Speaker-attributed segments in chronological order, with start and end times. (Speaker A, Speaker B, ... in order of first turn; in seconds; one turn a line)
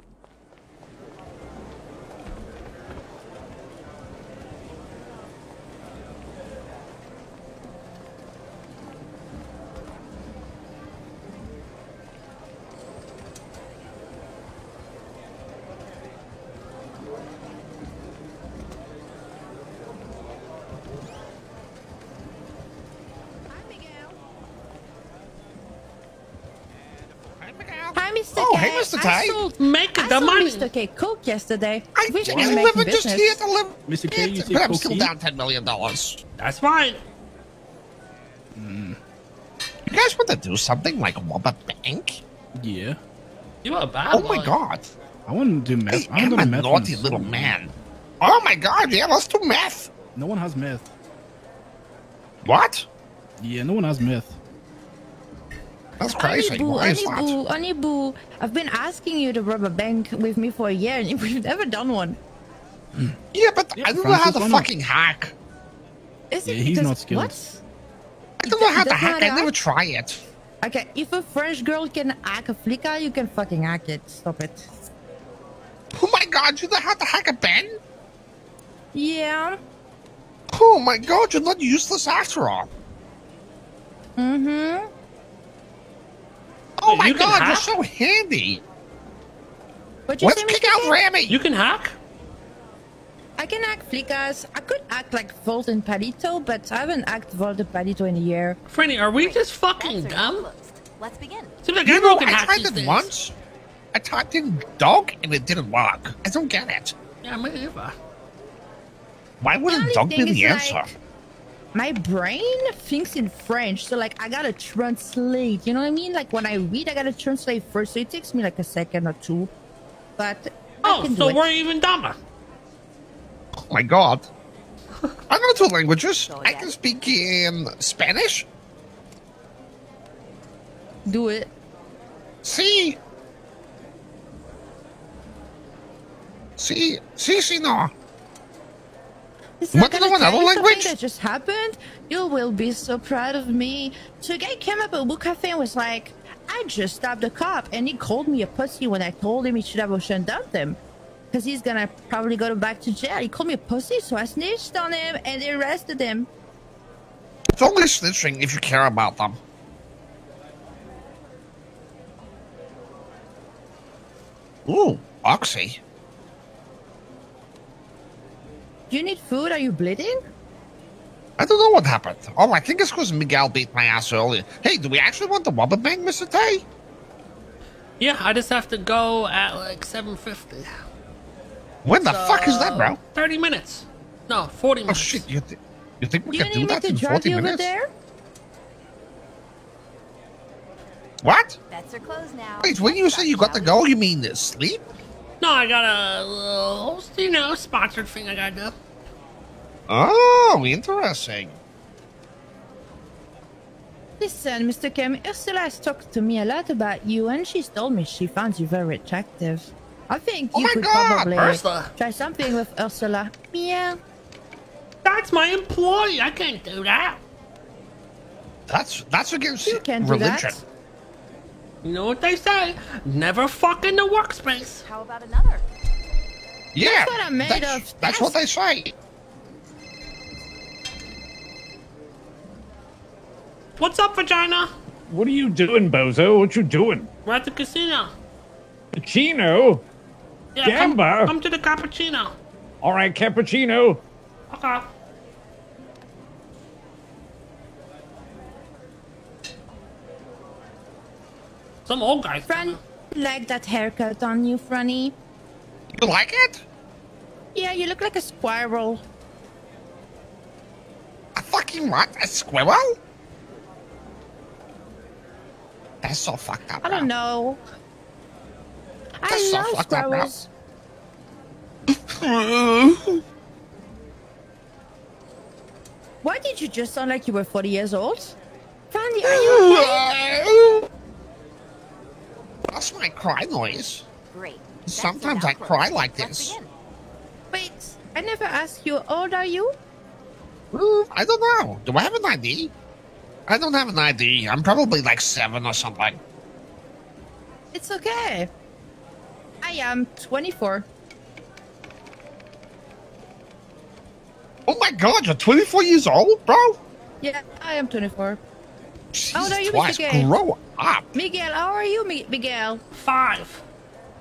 Speaker A: 23.5-24.1
Speaker B: 27.4-29.4
Speaker A: 27.9-33.4
Speaker C: 29.6-30.7
Speaker B: 31.9-36.2
Speaker D: 32.3-32.6
Speaker D: 33.9-35.1
Speaker C: 36.4-37.0
Speaker D: 38.5-39.0
Speaker B: 39.9-42.2
Speaker D: 42.5-43.0
Speaker C: 43.6-44.6
Speaker B: 44.1-44.9
Speaker D: 45.3-47.5
Speaker B: 45.9-49.9
Speaker D: 50.1-50.9
Speaker B: 52.4-52.9
Speaker D: 53.4-54.4
Speaker B: 56.0-57.4
Speaker A: 56.1-62.2
Speaker B: 63.3-65.3
Speaker D: 63.8-64.7
Speaker A: 66.3-67.6
Speaker D: 66.4-67.4
Speaker B: 68.4-70.2
Speaker A: 68.4-69.5
Speaker A: 70.6-74.7
Speaker B: 75.9-77.8
Speaker A: 78.9-79.6
Speaker B: 80.5-82.7
Speaker A: 84.2-84.9
Speaker B: 86.8-88.6
Speaker C: 86.9-87.7
Speaker A: 90.1-91.0
Speaker B: 90.2-91.4
Speaker C: 91.3-91.9
Speaker A: 93.4-98.6
Speaker C: 98.7-100.5
Speaker E: 99.1-101.5
Speaker C: 101.6-103.1
Speaker B: 101.8-103.3
Speaker B: 103.9-106.9
Speaker C: 107.2-107.9
Speaker B: 109.4-110.9
Speaker A: 109.7-110.9
Speaker A: 111.7-119.5
Speaker A: 120.2-121.4
Speaker C: 120.8-122.2
Speaker B: 123.5-124.3
Speaker B: 125.3-128.5
Speaker E: 126.3-126.8
Speaker A: 131.1-131.5
Speaker B: 132.4-133.0
Speaker B: 136.6-137.9
Speaker A: 139.6-150.8
Speaker B: 139.7-140.9
Speaker A: 151.3-156.3
Speaker B: 157.5-159.4
Speaker B: 164.7-165.8
Speaker A: 168.9-170.2
Speaker B: 171.4-176.6
Speaker C: 178.0-180.8
Speaker B: 181.8-183.0
Speaker C: 182.0-185.3
Speaker B: 184.9-187.7
Speaker A: 186.3-187.9
Speaker B: 191.2-191.6
Speaker E: 191.7-193.9
Speaker B: 192.6-194.8
Speaker C: 195.4-198.7
Speaker B: 199.9-201.6
Speaker A: 204.2-214.0
Speaker B: 210.5-211.6
Speaker C: 211.3-211.9
Speaker C: 215.0-217.2
Speaker B: 218.7-220.6
Speaker A: 219.6-220.6
Speaker C: 221.8-224.8
Speaker E: 224.8-225.7
Speaker B: 226.7-228.9
Speaker A: 226.8-228.4
Speaker C: 233.8-234.7
Speaker F: 235.1-237.1
Speaker C: 237.2-238.1
Speaker F: 238.9-239.8
Speaker C: 240.5-242.3
Speaker F: 240.6-241.3
Speaker F: 242.8-244.0
Speaker C: 244.5-244.8
Speaker C: 251.9-252.8
Speaker A: 252.5-255.1
Speaker B: 255.9-256.6
Speaker A: 257.5-259.0
Speaker B: 261.3-263.0
Speaker B: 266.0-267.1
Speaker A: 266.8-267.6
Speaker A: 269.2-270.5
Speaker B: 269.3-270.3
Speaker B: 271.9-273.2
Speaker A: 276.2-278.4
Speaker A: 278.9-280.1
Speaker B: 279.2-280.9
Speaker B: 282.7-284.1
Speaker E: 284.3-286.7
Speaker B: 284.8-286.6
Speaker A: 287.5-289.7
Speaker B: 290.7-292.7
Speaker B: 293.5-296.2
Speaker A: 297.7-298.5
Speaker A: 299.6-300.9
Speaker B: 304.7-306.8
Speaker A: 307.2-308.4
Speaker B: 309.1-311.1
Speaker A: 309.3-310.3
Speaker A: 311.1-312.8
Speaker C: 312.9-313.6